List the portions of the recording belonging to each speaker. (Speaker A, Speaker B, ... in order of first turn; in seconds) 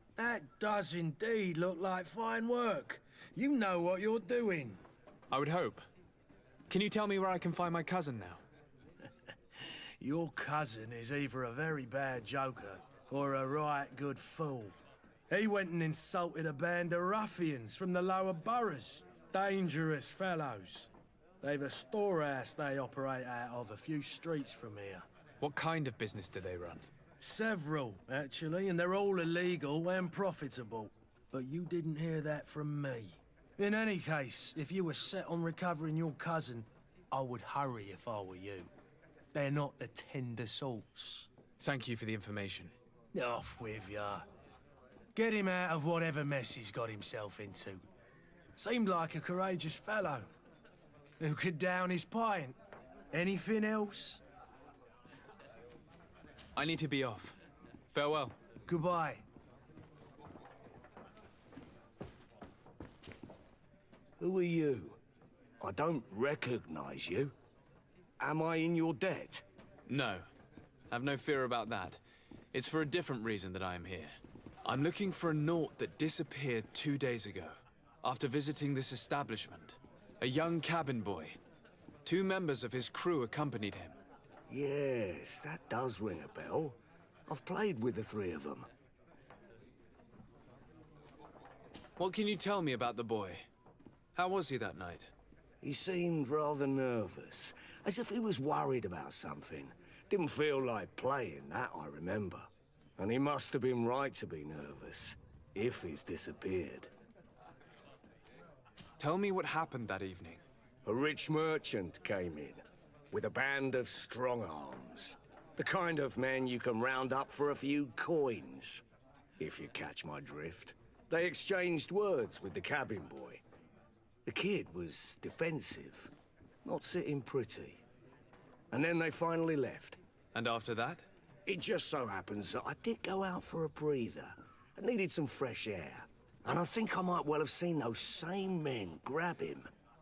Speaker A: 0.2-4.8, 9.6-14.8, 15.3-20.9, 21.4-25.1, 27.2-38.7, 39.3-41.3, 43.1-44.2, 45.1-47.8, 48.6-50.3, 51.2-52.6, 53.1-54.2, 58.7-59.2
Speaker B: 5.3-5.8, 6.7-8.4, 25.4-26.9, 41.6-42.7, 56.5-57.4, 57.9-58.3, 69.9-70.3, 70.9-72.0, 72.5-74.1, 74.6-81.4, 82.0-84.0, 92.0-93.5, 94.1-95.1, 109.0-110.4, 130.3-131.1
Speaker C: 64.2-65.0, 65.6-67.3, 68.2-69.4, 84.5-88.7, 95.6-106.9, 110.8-118.8, 119.4-123.4, 124.2-126.1, 126.6-127.8, 128.7-130.0, 131.4-139.7